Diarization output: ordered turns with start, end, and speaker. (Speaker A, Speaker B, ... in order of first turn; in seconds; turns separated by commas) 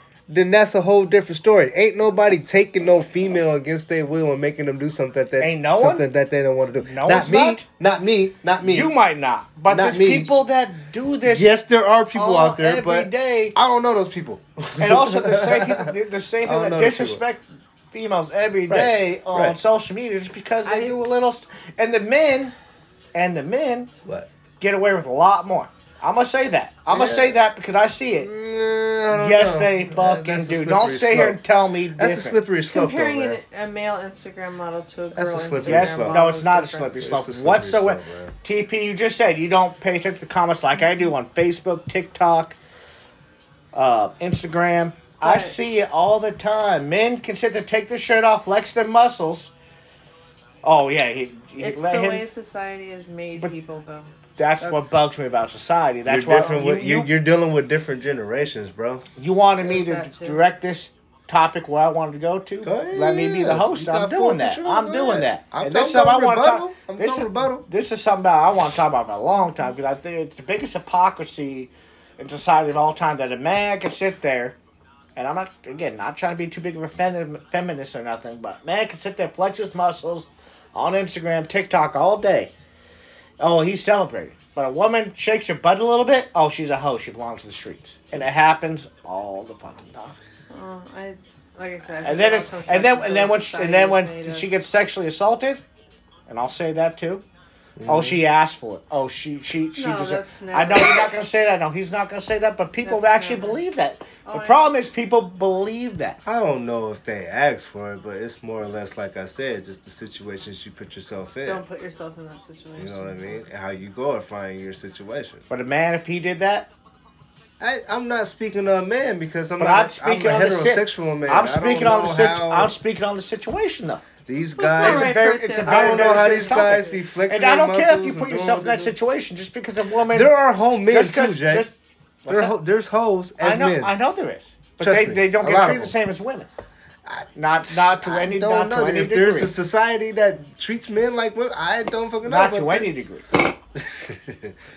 Speaker A: 0.3-8.9, Speaker B: 5.4-6.0, Speaker B: 6.8-7.6, Speaker B: 8.6-11.5, Speaker A: 9.7-10.3, Speaker A: 11.2-17.2, Speaker B: 12.1-13.6, Speaker B: 14.8-22.5, Speaker A: 18.7-19.6, Speaker C: 20.6-21.0, Speaker B: 23.1-23.9, Speaker B: 24.6-28.3, Speaker A: 26.9-27.4, Speaker A: 28.2-31.4, Speaker B: 29.1-32.4, Speaker A: 31.9-33.4, Speaker C: 32.7-36.9, Speaker A: 35.1-36.2, Speaker B: 35.6-42.6, Speaker A: 36.9-38.3, Speaker B: 43.7-49.5, Speaker C: 45.2-45.5, Speaker B: 50.6-52.2, Speaker C: 51.6-54.9, Speaker B: 54.4-57.1, Speaker A: 56.0-59.0, Speaker B: 59.2-74.6, Speaker C: 59.6-60.4, Speaker A: 62.6-67.6, Speaker B: 75.2-82.5, Speaker B: 83.4-90.2, Speaker C: 90.5-94.5, Speaker B: 92.0-95.6, Speaker B: 96.3-97.2, Speaker A: 97.8-98.2, Speaker B: 97.8-106.2, Speaker C: 99.8-101.1, Speaker C: 102.8-103.6, Speaker C: 104.2-104.8, Speaker A: 106.2-111.6, Speaker C: 111.4-113.4, Speaker A: 112.8-115.4, Speaker B: 115.5-116.7, Speaker A: 117.6-122.7, Speaker B: 119.6-124.0, Speaker A: 124.2-128.9, Speaker C: 124.6-126.8, Speaker B: 124.8-130.3, Speaker A: 130.1-131.7, Speaker B: 130.9-132.6, Speaker A: 132.3-133.9, Speaker B: 133.4-136.5, Speaker A: 134.8-135.9, Speaker A: 137.1-142.9, Speaker B: 137.3-139.5, Speaker B: 142.2-143.4, Speaker A: 143.7-144.5